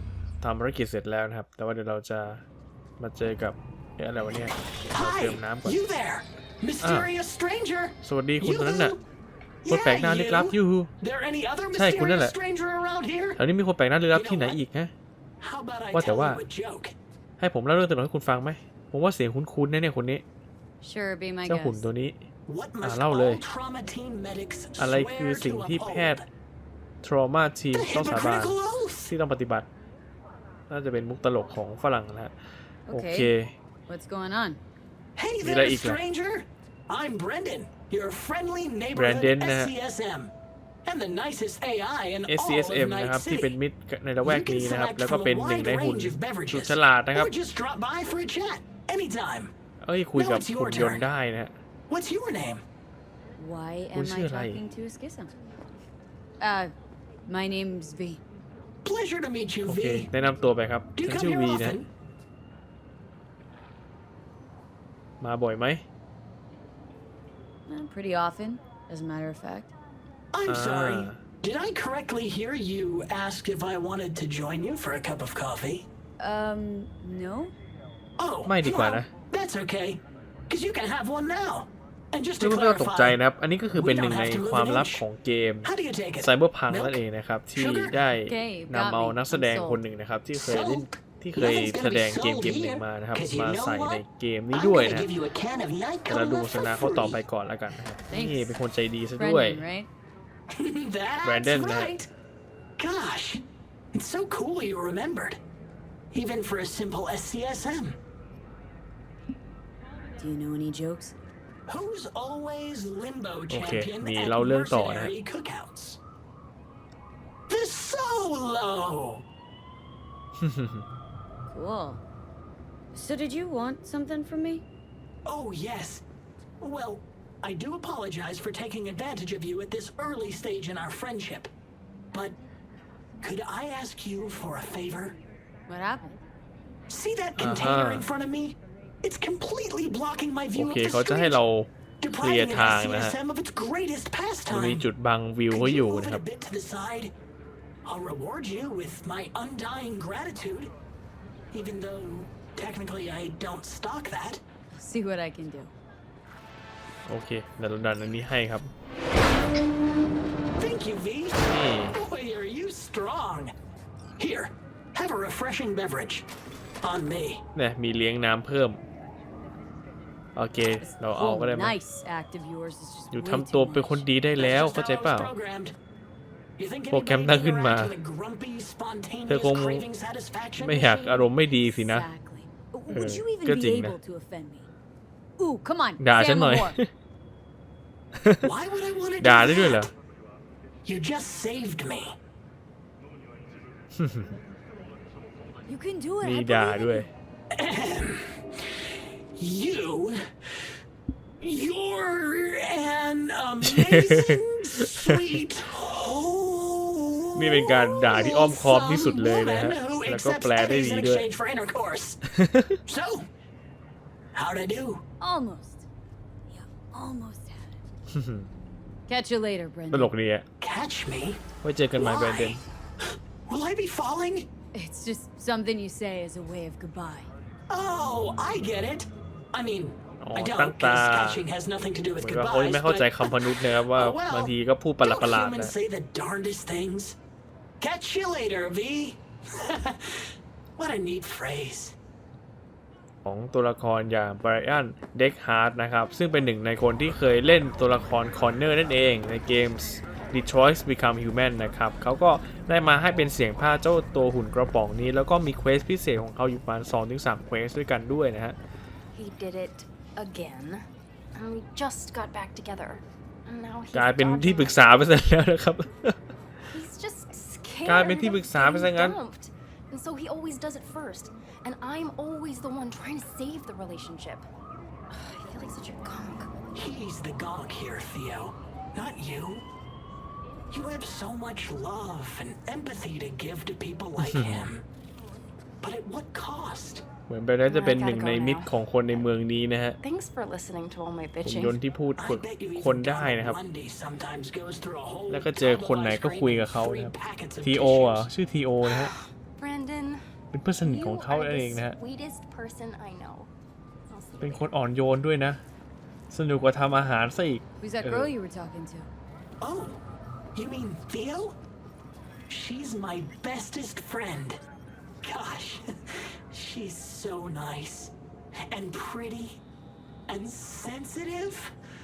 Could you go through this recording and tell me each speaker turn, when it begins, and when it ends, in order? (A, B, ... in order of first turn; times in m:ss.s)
0:00.4-0:02.4 A
0:03.0-0:05.9 A
0:04.9-0:09.0 B
0:06.8-0:07.1 A
0:08.0-0:09.0 A
0:09.6-0:13.4 B
0:09.7-0:10.9 A
0:11.7-0:12.3 A
0:13.4-0:14.9 A
0:14.1-0:14.6 B
0:15.4-0:16.9 B
0:15.9-0:16.4 A
0:17.4-0:20.2 A
0:20.8-0:21.9 C
0:21.4-0:22.2 A
0:22.4-0:26.3 B
0:22.8-0:23.4 A
0:24.8-0:26.2 A
0:27.0-0:29.7 A
0:27.7-0:29.1 B
0:30.7-0:32.3 A
0:32.9-0:33.3 C
0:32.9-0:33.5 A
0:33.9-0:34.6 C
0:35.2-0:40.3 B
0:35.4-0:36.0 A
0:38.9-0:39.7 A
0:40.8-0:43.6 B
0:42.2-0:47.3 A
0:44.2-0:49.5 B
0:49.8-0:51.6 A
0:50.1-0:51.1 B
0:51.9-0:52.6 B
0:53.4-0:55.4 C
0:53.9-0:54.6 A
0:56.4-0:56.7 C
0:57.3-0:58.2 C
0:58.8-1:00.1 B
0:59.6-1:01.8 A
1:01.0-1:01.9 B
1:05.2-1:05.8 A
1:07.6-1:09.7 C
1:10.3-1:15.8 B
1:10.5-1:11.2 A
1:16.2-1:17.6 C
1:18.2-1:23.2 B
1:18.4-1:19.1 A
1:22.4-1:35.1 A
1:23.7-1:25.0 B
1:25.6-1:28.0 B
1:28.2-1:29.8 C
1:30.3-1:37.2 B
1:36.1-1:39.6 A
1:38.0-1:38.6 C
1:39.2-1:39.9 C
1:40.5-1:42.1 B
1:41.2-1:41.9 A
1:42.8-1:43.4 B
1:43.9-1:45.4 B
1:46.1-1:48.0 B
1:50.2-1:51.2 C
1:51.7-1:56.0 B
1:53.5-1:55.1 A
1:57.5-1:59.2 B
2:00.4-2:00.8 A
2:01.5-2:02.0 C
2:02.9-2:04.6 C
2:05.2-2:06.0 B
2:06.6-2:11.5 B
2:12.1-2:12.4 B
2:13.2-2:15.2 B
2:15.7-2:16.2 C
2:16.9-2:21.4 B
2:17.4-2:18.0 A
2:20.5-2:23.2 A
2:22.0-2:24.9 B
2:24.5-2:26.2 A
2:25.5-2:27.1 B
2:27.8-2:30.7 B
2:31.5-2:34.4 B
2:34.7-2:35.7 C
2:37.1-2:38.7 A
2:40.6-2:43.5 B
2:41.4-2:42.0 A
2:44.2-2:46.3 B
2:46.8-2:47.4 B
2:47.6-2:48.8 A
2:50.4-2:51.8 A
2:50.8-2:54.1 C
2:53.1-2:55.3 A
2:54.4-2:55.8 B
2:56.6-3:01.2 B
2:56.9-2:58.0 A
2:59.3-2:59.8 A
3:00.6-3:02.1 A
3:01.4-3:04.7 C
3:02.9-3:04.0 A
3:05.4-3:06.8 C
3:06.0-3:06.8 A
3:08.2-3:08.5 A
3:08.4-3:09.9 B
3:09.2-3:09.9 A
3:10.8-3:12.2 B
3:14.0-3:14.3 A
3:15.7-3:17.1 C
3:16.2-3:17.1 A
3:17.5-3:18.8 B
3:19.4-3:20.2 B
3:21.4-3:32.2 B
3:23.6-3:25.2 A
3:27.3-3:31.3 A
3:32.3-3:32.8 A
3:32.8-3:33.3 B
3:34.3-3:35.0 B
3:35.2-3:35.8 C
3:36.5-3:37.8 C
3:38.1-3:38.5 A
3:39.1-3:40.1 C
3:39.9-3:40.4 A
3:40.6-3:41.4 B
3:41.6-3:42.6 A
3:41.9-3:44.5 B
3:44.7-3:47.3 C
3:47.7-3:57.2 B
3:50.2-3:51.4 A
3:52.2-3:55.7 A
3:57.8-4:02.0 B
4:03.2-4:18.6 A
4:19.1-4:24.8 D
4:23.9-4:26.1 A
4:26.7-4:34.5 D
4:27.8-4:29.2 A
4:35.1-4:36.5 D
4:36.7-4:39.7 B
4:40.7-4:44.8 B
4:44.2-4:44.7 A
4:45.8-4:47.0 B
4:47.3-4:50.0 A
4:47.6-4:49.3 D
4:50.0-4:51.8 D
4:51.4-4:53.6 A
4:52.2-4:58.3 B
4:55.3-4:59.1 A
4:58.8-5:00.2 D
5:00.5-5:02.0 A
5:00.8-5:03.5 D
5:04.1-5:04.7 D
5:04.4-5:05.6 A
5:06.3-5:08.3 A
5:07.8-5:09.1 C
5:09.6-5:10.0 B
5:10.5-5:11.6 B
5:12.5-5:14.6 B
5:15.2-5:18.1 B
5:18.7-5:19.6 B
5:20.3-5:21.7 B